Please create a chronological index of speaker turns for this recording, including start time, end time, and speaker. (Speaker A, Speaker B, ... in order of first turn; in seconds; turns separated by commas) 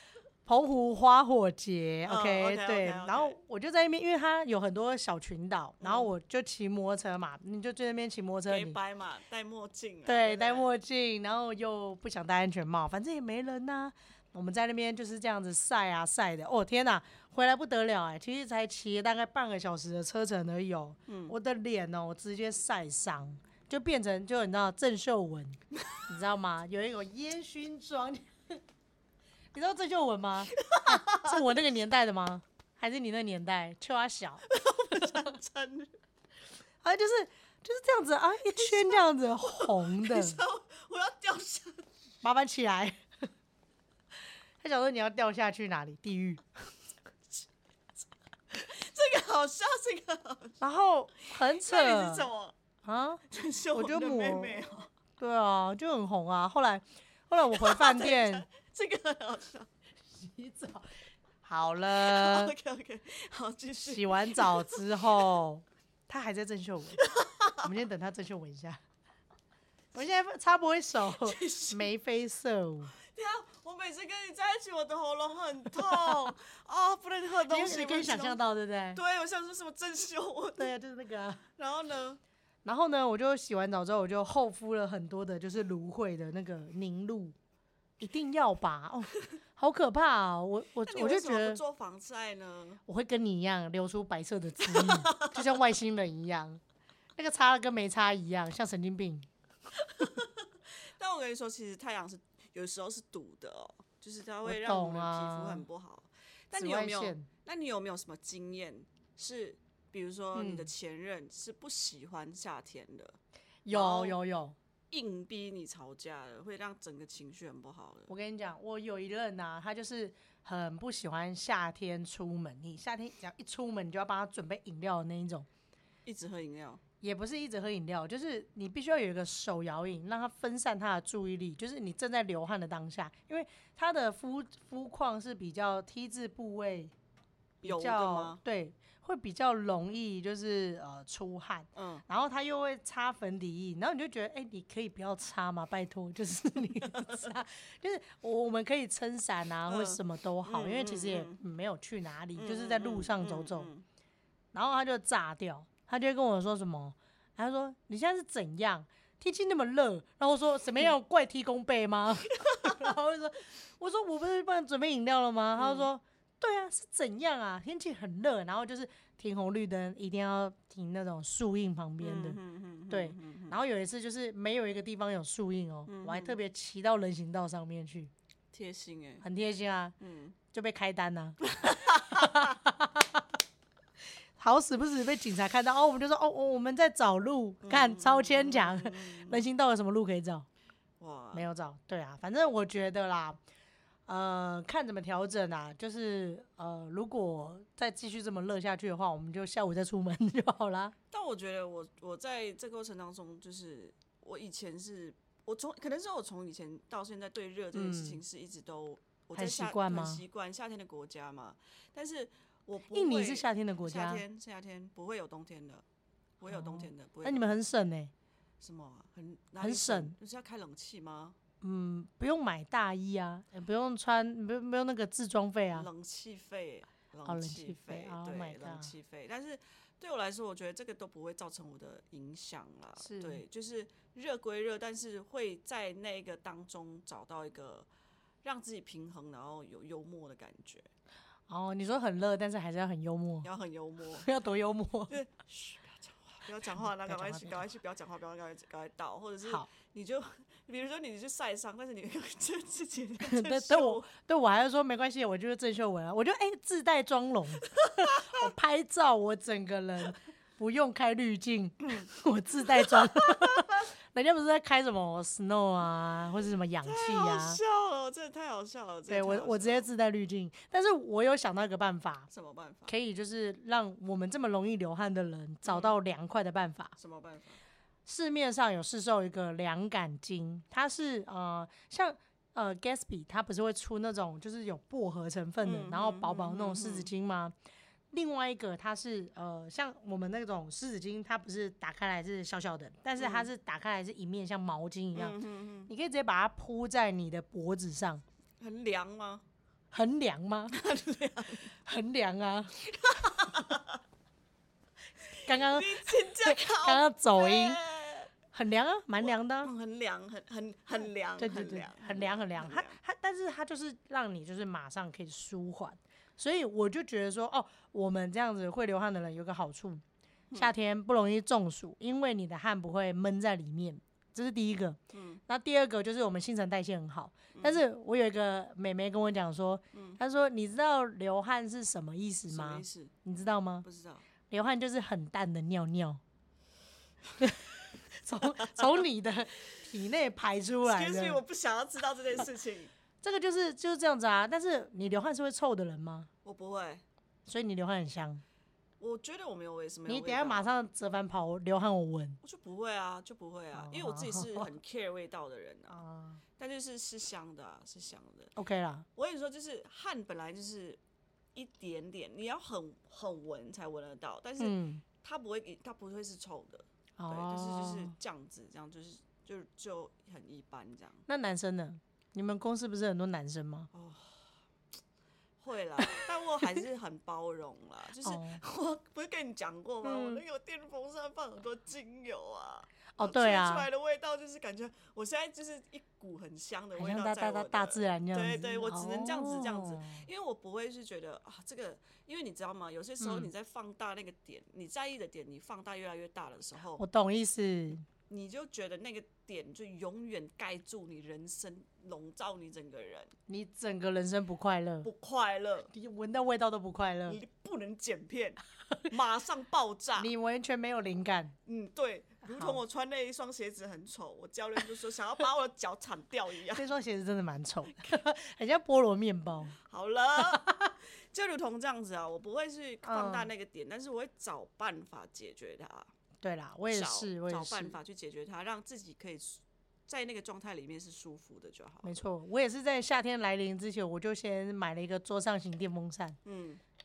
Speaker A: 0.5-8.8, Speaker B: 2.0-3.4, Speaker B: 5.8-6.1, Speaker B: 8.5-10.7, Speaker A: 10.1-28.6, Speaker B: 21.1-21.4, Speaker A: 29.5-35.3, Speaker B: 30.5-31.4, Speaker B: 34.5-35.9, Speaker A: 36.8-40.4, Speaker B: 38.5-41.9, Speaker A: 42.2-43.0, Speaker A: 44.6-46.5, Speaker B: 48.5-50.6, Speaker A: 50.6-52.3, Speaker B: 51.2-52.5, Speaker A: 52.8-53.2, Speaker B: 53.3-54.9, Speaker A: 53.7-54.6, Speaker A: 55.2-58.4, Speaker B: 57.5-59.7, Speaker A: 60.1-62.5, Speaker B: 61.9-65.3, Speaker A: 63.9-67.0, Speaker B: 67.0-67.7, Speaker A: 67.6-68.8, Speaker A: 69.9-72.9, Speaker B: 71.2-71.9, Speaker B: 72.9-78.4, Speaker A: 77.5-79.0, Speaker B: 78.9-80.7, Speaker A: 80.6-81.4, Speaker B: 81.6-82.2, Speaker A: 82.6-87.3, Speaker A: 88.0-91.6, Speaker B: 90.9-92.8, Speaker A: 92.9-96.6, Speaker B: 94.6-95.4, Speaker A: 97.2-99.3, Speaker B: 99.8-113.2, Speaker A: 104.4-105.6, Speaker A: 106.5-107.3, Speaker A: 110.3-110.7, Speaker A: 113.6-114.5, Speaker B: 113.7-114.2, Speaker B: 114.9-118.1, Speaker A: 118.1-125.5, Speaker B: 126.0-126.8, Speaker A: 127.0-136.9, Speaker A: 137.6-153.7, Speaker B: 137.6-138.4, Speaker B: 141.7-142.0, Speaker B: 146.8-147.3, Speaker B: 149.7-151.4, Speaker B: 152.3-153.8, Speaker A: 154.5-178.1, Speaker B: 162.3-162.9, Speaker B: 165.5-165.9, Speaker B: 172.0-173.6, Speaker B: 175.9-176.4, Speaker B: 178.5-179.2, Speaker A: 179.2-179.9, Speaker B: 180.0-180.3, Speaker A: 180.5-183.2, Speaker B: 181.4-182.6, Speaker A: 184.4-190.4, Speaker B: 187.6-189.4, Speaker B: 191.0-191.5, Speaker A: 191.3-193.4, Speaker A: 194.1-200.9, Speaker B: 201.1-215.8, Speaker A: 207.7-208.2, Speaker A: 209.3-210.2, Speaker A: 212.9-214.2, Speaker B: 216.4-217.6, Speaker A: 216.5-218.1, Speaker B: 218.6-221.3, Speaker A: 219.6-220.1, Speaker A: 221.6-225.9, Speaker B: 225.7-237.9, Speaker A: 227.2-228.9, Speaker A: 233.0-233.4, Speaker B: 238.4-240.9, Speaker A: 241.5-243.5, Speaker B: 243.4-244.3, Speaker A: 244.2-245.2, Speaker B: 245.1-254.1, Speaker A: 246.8-247.6, Speaker A: 253.2-267.6, Speaker B: 257.6-258.4, Speaker B: 261.8-262.1, Speaker B: 262.7-263.9, Speaker B: 266.8-269.9, Speaker A: 269.1-272.3, Speaker B: 272.3-272.9, Speaker A: 272.9-276.9, Speaker B: 275.6-275.9, Speaker B: 277.0-277.6, Speaker A: 278.1-287.5, Speaker B: 285.6-287.1, Speaker A: 288.1-298.2, Speaker B: 293.2-293.5, Speaker B: 295.1-295.9, Speaker B: 298.6-299.4, Speaker A: 299.9-300.7, Speaker B: 300.7-301.7, Speaker A: 301.8-303.6, Speaker B: 302.9-304.0, Speaker B: 305.3-308.3, Speaker A: 305.4-307.8, Speaker A: 308.5-309.7, Speaker B: 309.2-313.0, Speaker A: 311.4-320.0, Speaker A: 320.6-333.8, Speaker B: 325.1-325.4, Speaker B: 327.5-327.8, Speaker B: 329.9-330.2, Speaker B: 332.5-333.1, Speaker B: 333.8-334.2, Speaker A: 334.5-336.2, Speaker A: 337.4-341.4, Speaker B: 338.4-339.0, Speaker B: 340.8-342.9, Speaker A: 343.2-346.3, Speaker B: 346.4-347.0, Speaker A: 347.4-348.4, Speaker B: 349.0-350.7, Speaker A: 350.1-352.4, Speaker B: 352.4-356.0, Speaker A: 353.7-354.7, Speaker A: 355.9-356.4, Speaker B: 356.6-358.5, Speaker A: 358.6-359.1, Speaker B: 359.1-361.0, Speaker B: 361.5-371.2, Speaker A: 364.6-365.0, Speaker A: 367.2-368.1, Speaker A: 371.3-373.9, Speaker B: 373.9-374.5, Speaker B: 375.6-397.0, Speaker A: 378.2-378.6, Speaker A: 380.0-380.4, Speaker A: 383.2-383.9, Speaker A: 386.9-390.2, Speaker A: 393.2-393.5, Speaker A: 397.0-398.1, Speaker B: 398.3-403.3, Speaker A: 403.5-405.1, Speaker B: 405.0-405.9, Speaker A: 405.9-407.4, Speaker B: 407.3-410.3, Speaker A: 410.2-411.5, Speaker B: 411.6-416.9, Speaker A: 412.5-412.8, Speaker A: 416.7-419.7, Speaker B: 419.8-426.1, Speaker A: 420.4-420.9, Speaker A: 423.0-423.5, Speaker A: 426.4-427.9, Speaker B: 426.9-432.2, Speaker A: 432.0-436.4, Speaker B: 436.4-436.8